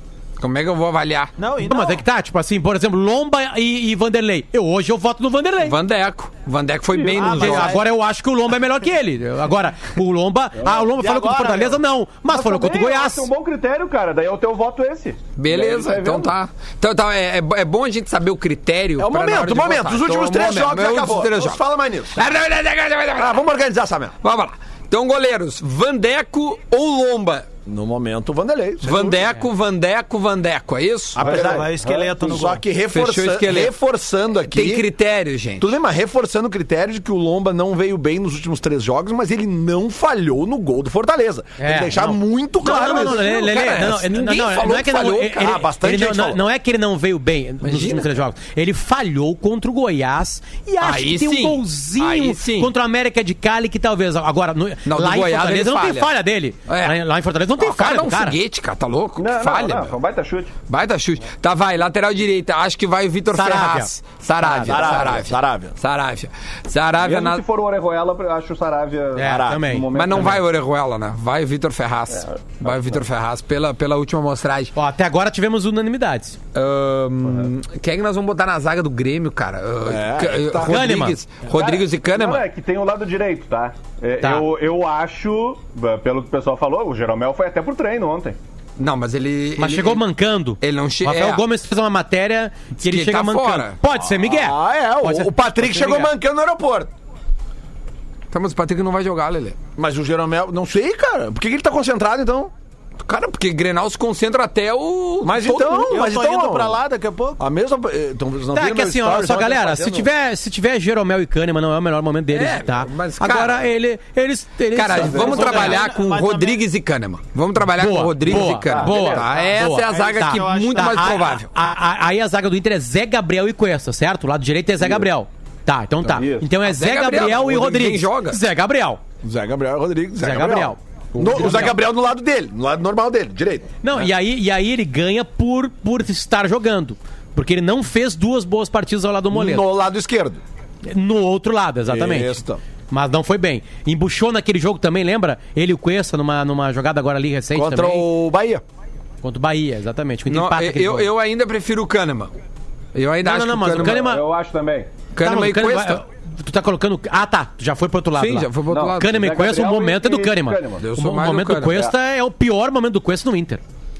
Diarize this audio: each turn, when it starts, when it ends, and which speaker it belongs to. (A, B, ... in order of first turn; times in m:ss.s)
0:00.4-0:01.3 A
0:01.4-0:02.0 B
0:01.6-0:05.8 C
0:05.6-0:07.8 A
0:06.9-0:07.3 D
0:07.1-0:07.8 B
0:07.2-0:13.3 C
0:10.9-0:11.8 B
0:12.3-0:16.3 D
0:15.4-0:21.6 A
0:19.0-0:22.2 E
0:22.1-0:23.4 A
0:23.2-0:24.2 E
0:24.2-0:27.5 A
0:27.6-0:29.2 E
0:28.8-0:31.2 A
0:31.2-0:34.8 E
0:31.2-0:32.2 D
0:31.2-0:32.6 B
0:32.9-0:33.7 A
0:34.5-0:35.7 A
0:35.6-0:43.3 E
0:41.6-0:58.4 C
0:42.6-0:45.6 A
0:45.4-0:46.4 E
0:47.6-0:48.1 A
0:50.8-0:52.7 A
0:54.8-0:56.1 A
0:56.7-0:57.0 A
0:57.6-0:59.9 A
0:59.2-1:00.5 D
1:00.7-1:07.4 A
1:03.3-1:04.9 C
1:04.6-1:05.7 E
1:07.0-1:10.4 D
1:09.1-1:10.4 C
1:09.2-1:09.7 E
1:09.9-1:14.7 A
1:12.1-1:13.0 D
1:14.7-1:16.4 C
1:16.5-1:22.4 A
1:19.8-1:20.8 E
1:20.6-1:21.2 C
1:21.5-1:28.4 D
1:24.2-1:24.5 C
1:28.8-1:30.0 A
1:29.6-1:36.1 C
1:30.6-1:31.4 A
1:32.8-1:33.8 A
1:34.1-1:36.9 E
1:38.3-1:39.6 A
1:39.8-1:42.5 E
1:43.0-1:46.0 A
1:45.2-1:46.8 E
1:45.9-1:47.4 B
1:47.4-1:50.1 E
1:48.5-1:55.8 C
1:52.3-1:53.7 A
1:54.7-2:01.5 A
1:54.9-1:55.6 D
1:55.1-1:56.6 B
1:57.8-2:09.0 C
1:58.2-1:59.4 D
1:59.3-2:01.4 B
2:04.8-2:05.1 D
2:06.0-2:06.5 D
2:06.6-2:08.4 A
2:09.2-2:13.7 E
2:10.2-2:11.8 C
2:13.8-2:19.7 C
2:19.3-2:20.4 E
2:20.8-2:28.1 C
2:21.9-2:22.6 E
2:27.5-2:28.6 E
2:29.2-2:31.1 C
2:30.3-2:32.3 A
2:32.9-2:34.0 A
2:33.2-2:34.2 C
2:33.7-2:34.9 D
2:35.1-2:36.0 A
2:35.2-2:43.6 C
2:38.1-2:39.3 A
2:38.7-2:40.9 D
2:40.8-2:41.9 A